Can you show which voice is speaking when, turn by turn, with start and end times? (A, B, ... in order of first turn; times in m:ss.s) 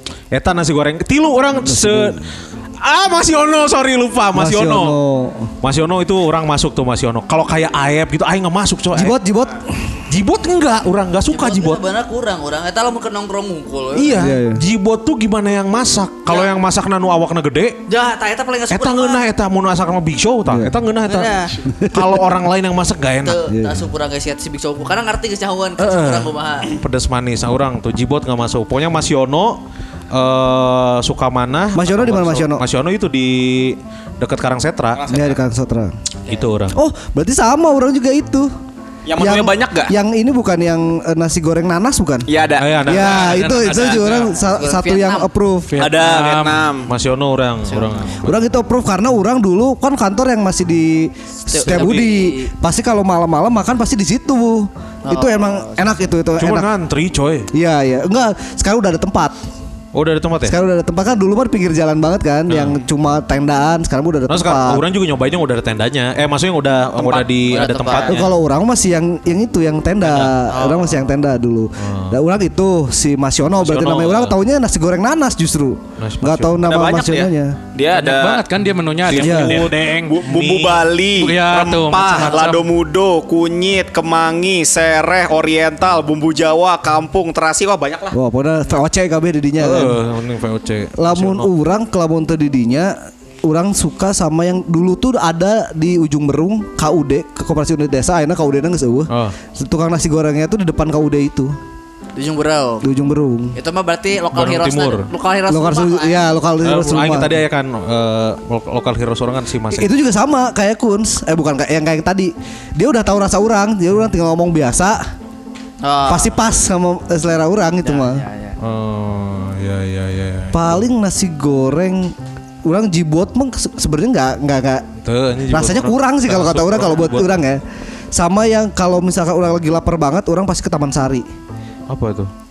0:00.3-0:05.0 A
0:01.5-0:02.3 B
0:04.3-0:05.5 B
0:05.6-0:09.2 A
0:08.9-0:09.9 B
0:10.1-0:11.8 A
0:11.3-0:14.3 C
0:14.0-0:17.8 A
0:14.1-0:14.6 B
0:17.9-0:19.2 C
0:18.7-0:21.4 A
0:20.5-0:20.8 B
0:21.0-0:21.6 C
0:21.7-0:22.2 B
0:21.9-0:23.4 A
0:23.2-0:26.8 C
0:23.5-0:23.9 B
0:25.8-0:35.0 A
0:31.7-0:32.6 B
0:35.0-0:35.4 D
0:35.1-0:35.9 B
0:36.3-0:36.8 A
0:36.7-0:38.5 B
0:39.1-0:39.9 D
0:39.2-0:42.3 B
0:42.3-0:42.8 D
0:42.6-0:43.4 A
0:42.8-0:45.7 B
0:42.9-0:44.4 E
0:43.7-0:45.3 C
0:45.7-0:46.6 E
0:45.8-0:46.9 D
0:46.9-0:48.5 A
0:47.7-0:48.1 C
0:48.2-0:56.7 B
0:51.5-0:52.5 C
0:51.7-0:52.1 A
0:55.0-0:56.0 C
0:56.4-0:57.5 A
0:57.5-0:59.4 B
0:59.9-1:00.6 A
1:00.4-1:04.8 B
1:02.5-1:02.8 A
1:04.3-1:08.3 A
1:07.0-1:08.1 D
1:07.4-1:08.2 C
1:08.0-1:17.6 B
1:10.0-1:10.4 A
1:10.5-1:11.1 C
1:11.8-1:12.2 A
1:13.6-1:14.4 A
1:16.0-1:16.6 A
1:16.6-1:18.4 D
1:17.9-1:20.2 E
1:19.1-1:20.8 A
1:19.1-1:19.7 B
1:20.0-1:28.2 D
1:21.2-1:22.7 E
1:28.1-1:30.0 B
1:29.6-1:31.5 A
1:31.0-1:41.6 B
1:39.1-1:39.4 A
1:42.2-1:42.9 C
1:42.8-1:43.6 B
1:43.6-1:46.3 C
1:44.3-1:45.1 A
1:45.5-1:47.4 B
1:46.6-1:49.9 A
1:49.7-1:55.0 B
1:55.8-1:56.4 C
1:56.1-1:58.2 B
1:57.8-1:58.6 C
1:58.6-2:00.8 A
2:00.5-2:02.1 B
2:02.6-2:04.9 B
2:05.0-2:07.3 A
2:05.5-2:07.6 B
2:08.1-2:11.3 B
2:11.9-2:12.3 A